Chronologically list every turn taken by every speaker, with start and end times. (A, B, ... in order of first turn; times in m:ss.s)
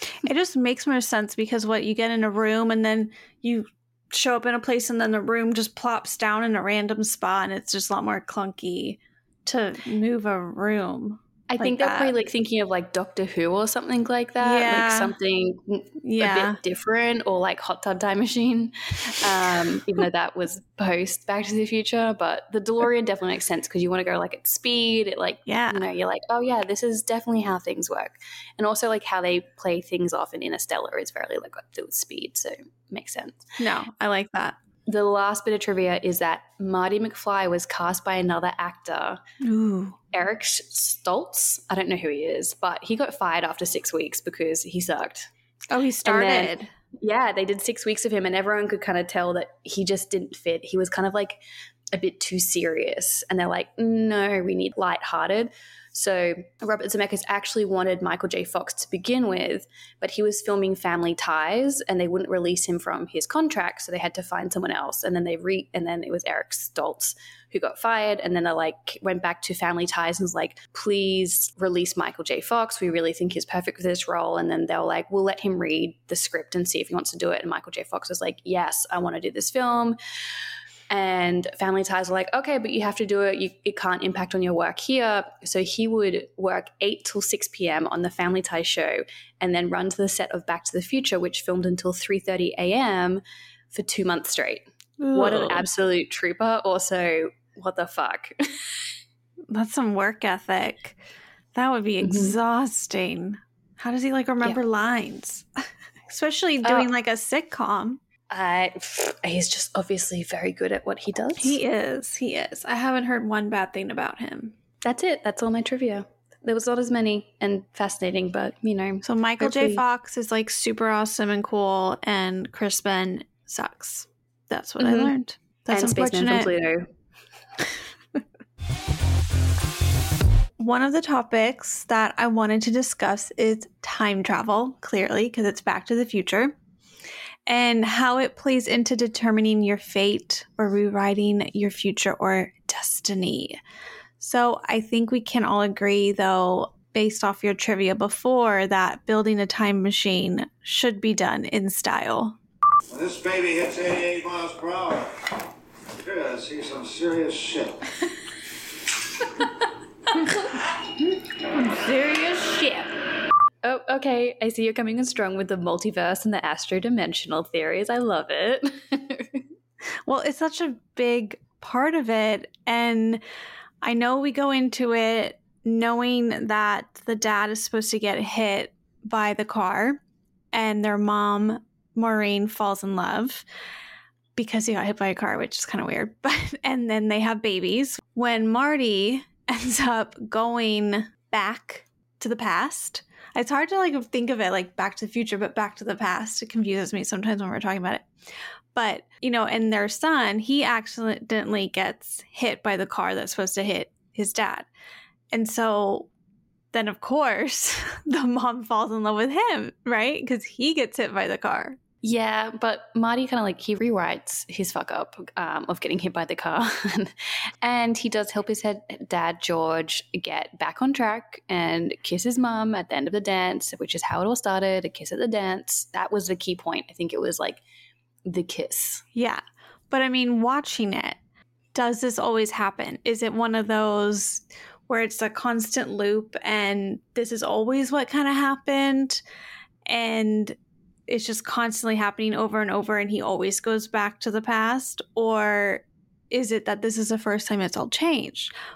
0:00.2-0:12.1 A
0:11.5-0:33.4 B
0:14.4-0:15.1 A
0:16.0-0:16.6 A
0:25.5-0:25.8 A
0:33.6-0:34.6 A
0:34.9-0:39.2 B
0:39.4-0:40.0 A
0:40.1-0:45.3 B
0:45.7-0:46.7 A
0:46.0-0:51.4 B
0:51.9-1:20.0 B
1:20.9-1:38.7 B
1:35.0-1:35.6 A
1:39.5-1:41.0 A
1:41.5-1:45.5 A
1:42.0-1:42.4 B
1:46.1-1:48.0 A
1:46.6-1:46.9 B
1:48.3-1:51.6 B
1:51.4-1:54.5 A
1:54.8-1:59.8 B
1:59.0-2:06.5 A
2:04.8-2:05.1 B
2:05.7-2:06.9 B
2:10.6-2:16.5 A
2:17.4-2:23.6 A
2:24.2-2:32.4 A
2:32.9-2:35.1 C
2:36.0-2:37.9 C
2:41.5-2:42.9 A
2:43.6-2:49.4 B
2:50.0-2:53.2 A
2:53.8-3:00.0 A
3:00.5-3:03.4 A
3:04.4-3:18.1 A
3:18.7-3:24.7 A
3:25.3-3:26.1 A
3:26.7-3:31.8 A
3:32.0-3:47.6 B
3:48.2-3:49.0 B
3:49.1-3:51.2 A
3:51.7-3:59.2 A
3:59.8-4:08.5 A